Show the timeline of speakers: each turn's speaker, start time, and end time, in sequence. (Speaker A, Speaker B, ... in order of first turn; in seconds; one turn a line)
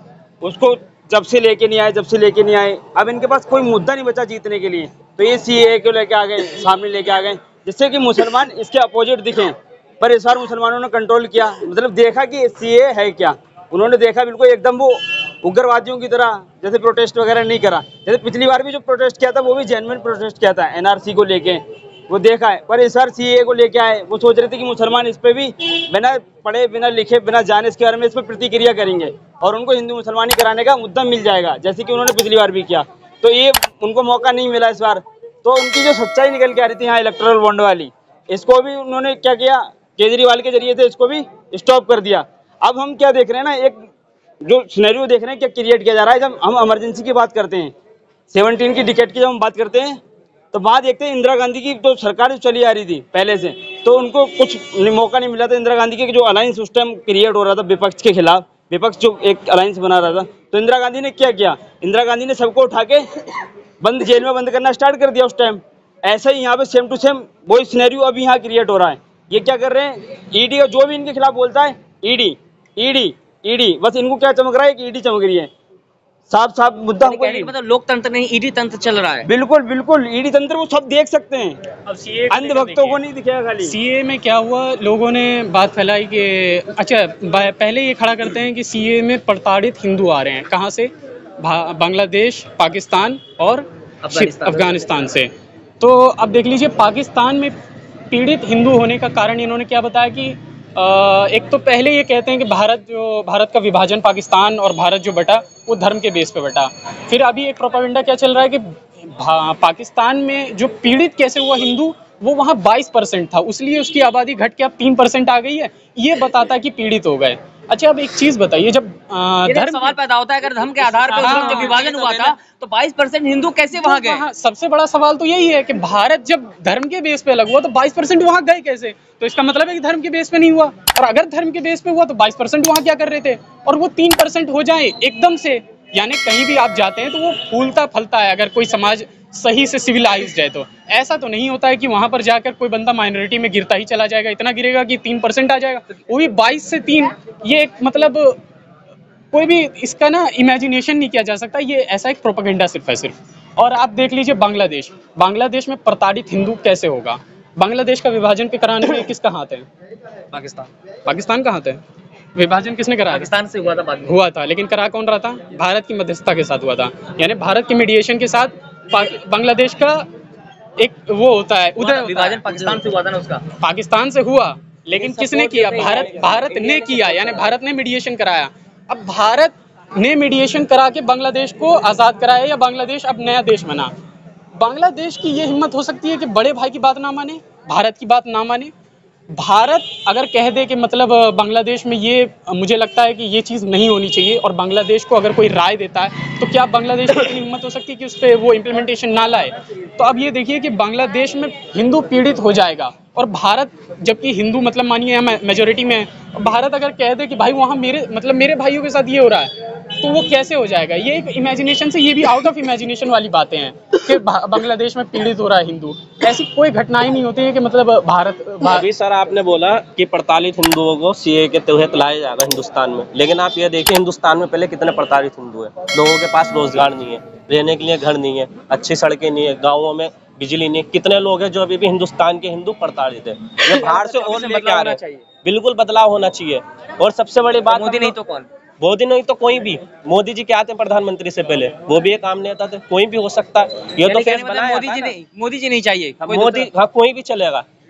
Speaker A: 0.4-43.8
Speaker A: 44.4-47.7
Speaker A: 48.3-50.0
Speaker A: 50.5-63.0
Speaker A: 63.8-75.5
Speaker A: 76.3-77.5
Speaker B: 77.0-79.3
Speaker A: 79.2-81.6
Speaker C: 81.8-83.0
Speaker A: 82.3-83.7
Speaker C: 83.6-95.3
Speaker B: 94.0-94.8
Speaker C: 95.8-97.5
Speaker C: 98.1-120.0
Speaker B: 119.4-124.2
Speaker C: 121.1-121.9
Speaker C: 123.8-148.4
Speaker C: 149.3-159.6
Speaker B: 160.3-160.7
Speaker C: 161.0-161.8
Speaker C: 162.3-163.3
Speaker B: 163.1-164.1
Speaker C: 164.0-170.0
Speaker C: 170.8-172.5
Speaker B: 171.8-173.4
Speaker C: 173.5-183.9
Speaker B: 174.9-177.5
Speaker C: 184.6-188.7
Speaker C: 189.3-218.8
Speaker D: 218.6-238.2
Speaker B: 233.7-235.2
Speaker B: 237.7-238.5
Speaker D: 238.8-245.1
Speaker B: 244.0-246.7
Speaker D: 246.2-247.6